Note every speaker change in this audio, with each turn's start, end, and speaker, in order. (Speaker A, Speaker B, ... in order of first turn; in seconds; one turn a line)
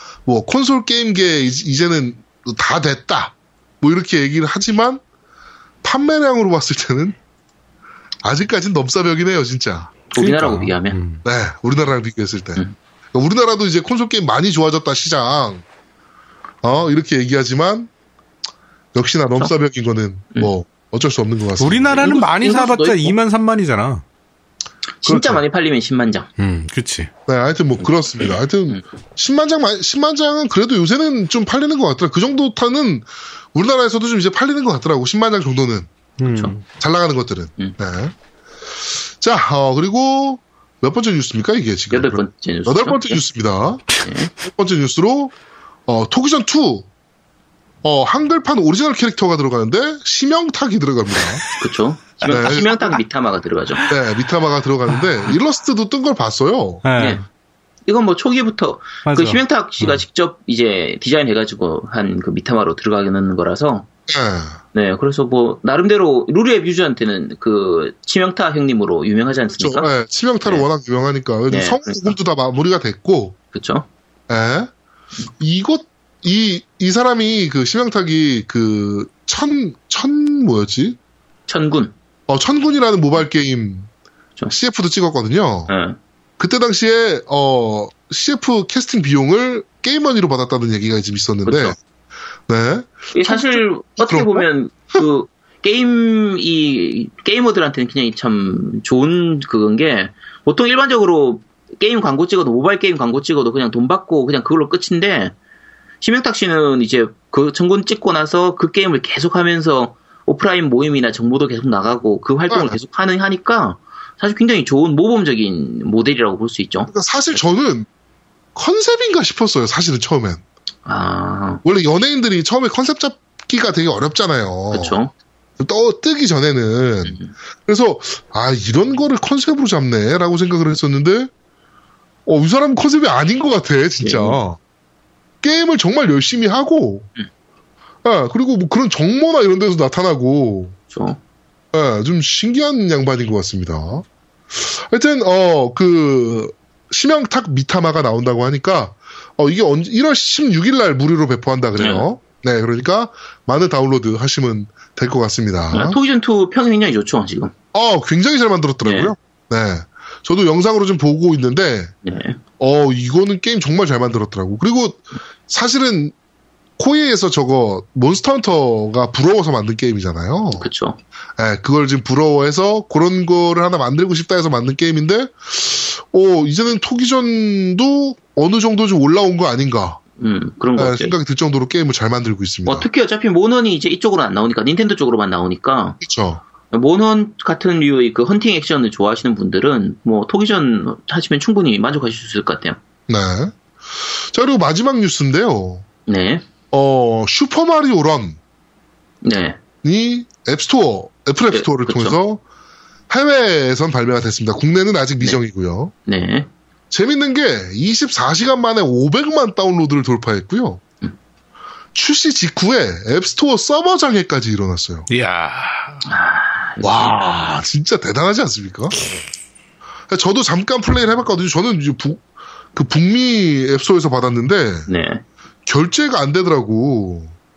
Speaker A: 0.3-5.0
Speaker A: 5.8-7.2
Speaker A: 8.2-9.9
Speaker B: 10.1-11.0
Speaker C: 10.2-11.2
Speaker A: 11.2-15.6
Speaker A: 16.6-17.9
Speaker A: 18.9-22.2
Speaker C: 21.6-24.0
Speaker B: 21.9-23.1
Speaker B: 25.0-26.3
Speaker A: 25.1-25.4
Speaker C: 26.4-27.1
Speaker A: 27.3-35.9
Speaker C: 36.2-36.6
Speaker B: 36.3-36.5
Speaker A: 36.7-38.1
Speaker A: 39.0-45.3
Speaker B: 41.9-43.2
Speaker B: 44.0-44.3
Speaker A: 45.9-46.9
Speaker A: 47.8-51.4
Speaker B: 51.6-53.8
Speaker A: 52.2-52.7
Speaker A: 53.9-56.8
Speaker C: 56.9-57.2
Speaker B: 57.0-57.2
Speaker B: 57.9-63.9
Speaker C: 59.1-60.0
Speaker A: 64.1-64.6
Speaker B: 64.7-69.9
Speaker A: 69.6-73.4
Speaker B: 71.5-72.2
Speaker B: 73.5-73.9
Speaker A: 74.3-74.7
Speaker A: 75.4-81.0
Speaker B: 81.5-81.9
Speaker A: 82.3-83.9
Speaker A: 84.5-85.7
Speaker B: 85.7-86.0
Speaker A: 86.4-91.8
Speaker B: 91.5-91.8
Speaker A: 92.5-94.5
Speaker B: 93.1-105.3
Speaker B: 106.0-116.9
Speaker A: 112.5-112.8
Speaker A: 116.9-117.9
Speaker A: 118.5-120.4
Speaker B: 120.9-121.6
Speaker A: 121.6-125.0
Speaker B: 124.7-125.1
Speaker A: 125.6-131.3
Speaker B: 127.1-127.3
Speaker A: 132.3-134.6
Speaker B: 134.0-134.4
Speaker A: 135.4-137.1
Speaker A: 138.0-140.8
Speaker B: 140.9-141.2
Speaker A: 141.7-156.0
Speaker B: 151.8-152.1
Speaker B: 155.7-157.5
Speaker A: 157.7-161.9
Speaker B: 158.8-159.1
Speaker B: 162.0-162.4
Speaker A: 162.6-166.1
Speaker A: 166.8-170.7
Speaker B: 170.6-171.0
Speaker A: 171.4-180.0
Speaker B: 180.2-181.2
Speaker A: 180.8-182.9
Speaker B: 182.7-186.0
Speaker A: 186.0-186.4
Speaker B: 186.7-192.8
Speaker A: 193.1-195.8
Speaker B: 196.1-196.5
Speaker A: 196.7-198.4
Speaker B: 199.2-199.6
Speaker A: 199.8-202.4
Speaker B: 201.5-202.2
Speaker A: 203.1-205.9
Speaker B: 206.1-206.5
Speaker A: 206.9-210.8
Speaker A: 211.9-215.1
Speaker C: 215.1-216.0
Speaker B: 216.1-217.5
Speaker A: 216.8-219.0
Speaker A: 220.1-222.2
Speaker A: 222.7-224.9
Speaker B: 224.9-225.2
Speaker A: 225.7-227.3